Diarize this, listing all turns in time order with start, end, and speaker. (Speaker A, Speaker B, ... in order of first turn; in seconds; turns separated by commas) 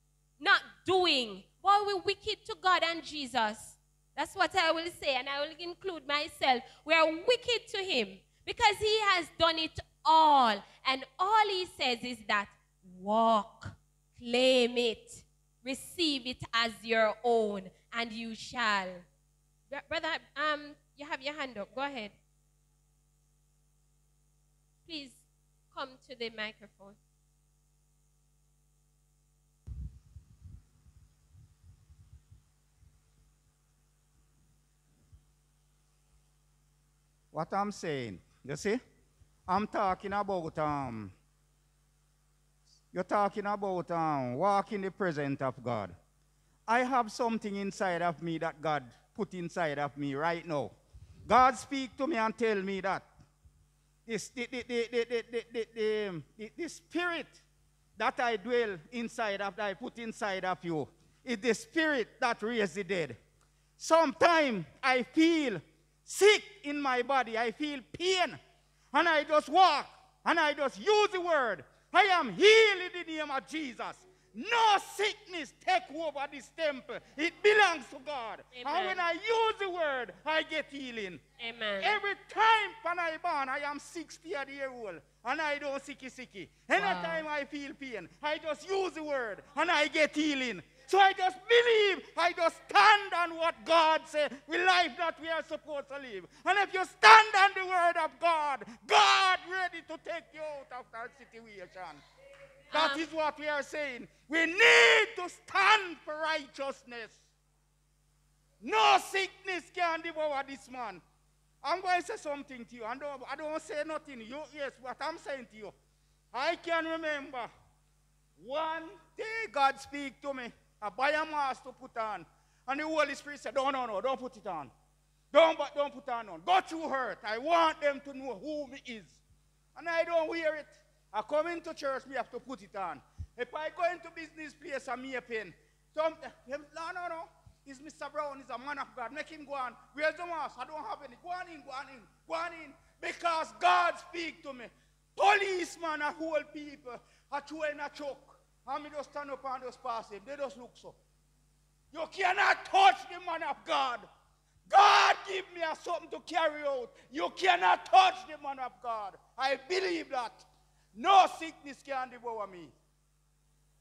Speaker A: 0.4-19.0, Speaker A: 19.7-22.1, Speaker A: 24.9-27.0, Speaker B: 37.3-38.8, Speaker B: 39.5-41.1, Speaker B: 42.9-45.9, Speaker B: 46.7-50.8, Speaker B: 51.3-53.1, Speaker B: 54.1-57.4, Speaker B: 58.0-63.2, Speaker B: 63.8-68.4, Speaker B: 68.9-81.2, Speaker A: 78.5-79.0, Speaker A: 81.4-82.0, Speaker B: 81.8-102.0, Speaker A: 86.8-87.3, Speaker B: 102.7-107.2, Speaker A: 102.7-103.0, Speaker B: 108.6-111.0, Speaker B: 111.6-115.7, Speaker B: 116.3-117.5, Speaker B: 118.4-124.7, Speaker B: 125.3-129.2, Speaker B: 129.8-151.0, Speaker B: 151.9-154.1, Speaker B: 154.7-162.7